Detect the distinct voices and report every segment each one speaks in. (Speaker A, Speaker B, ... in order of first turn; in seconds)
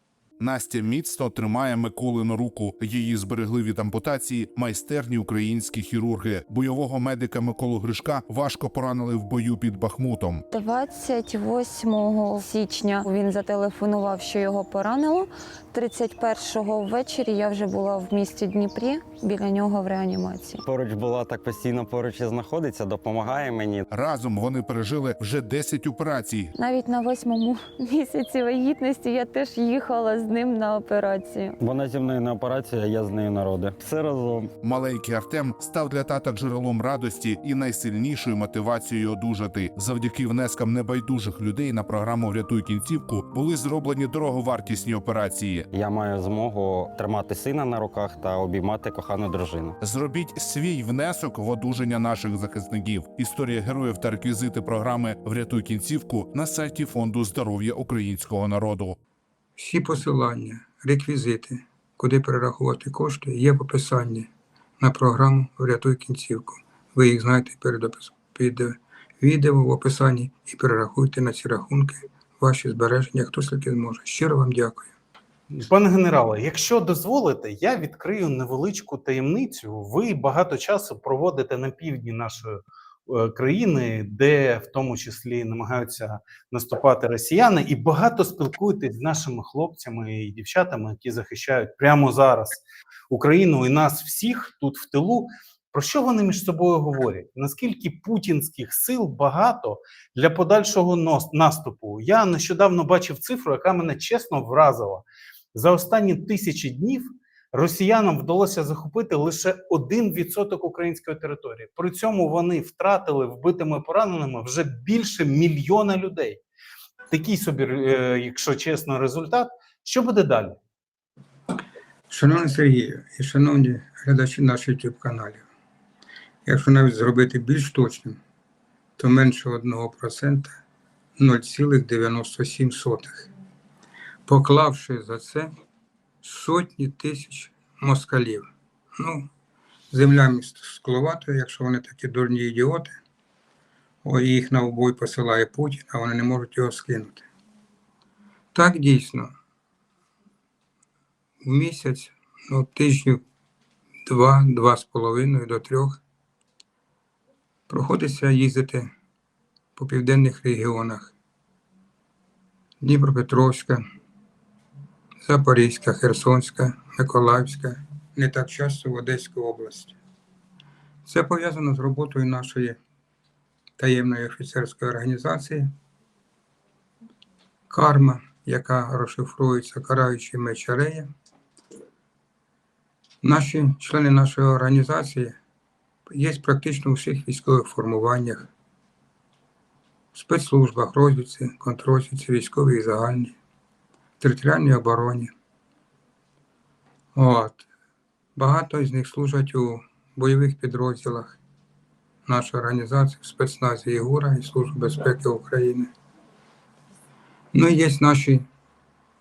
Speaker A: 0.4-10.4, 23.9-26.5, 34.6-45.7, 49.8-59.0
Speaker B: 10.5-20.6, 26.6-31.6
Speaker C: 20.6-23.9, 31.6-34.5, 45.7-49.8
Speaker D: 59.6-74.9, 122.1-125.5, 126.4-128.2, 129.0-130.6, 131.2-133.3, 134.2-135.5, 136.2-139.3, 139.9-143.0, 144.0-147.2, 148.5-149.3, 151.4-153.2, 154.1-156.0, 157.7-158.9, 159.8-161.1, 162.8-163.8, 165.2-170.0, 171.0-172.8, 173.8-175.7, 177.7-181.1, 183.2-185.4, 186.1-188.5, 190.1-193.3, 194.2-195.3, 197.1-197.7, 198.3-201.4, 202.2-205.9, 207.5-208.4
Speaker E: 75.5-116.4, 117.1-120.6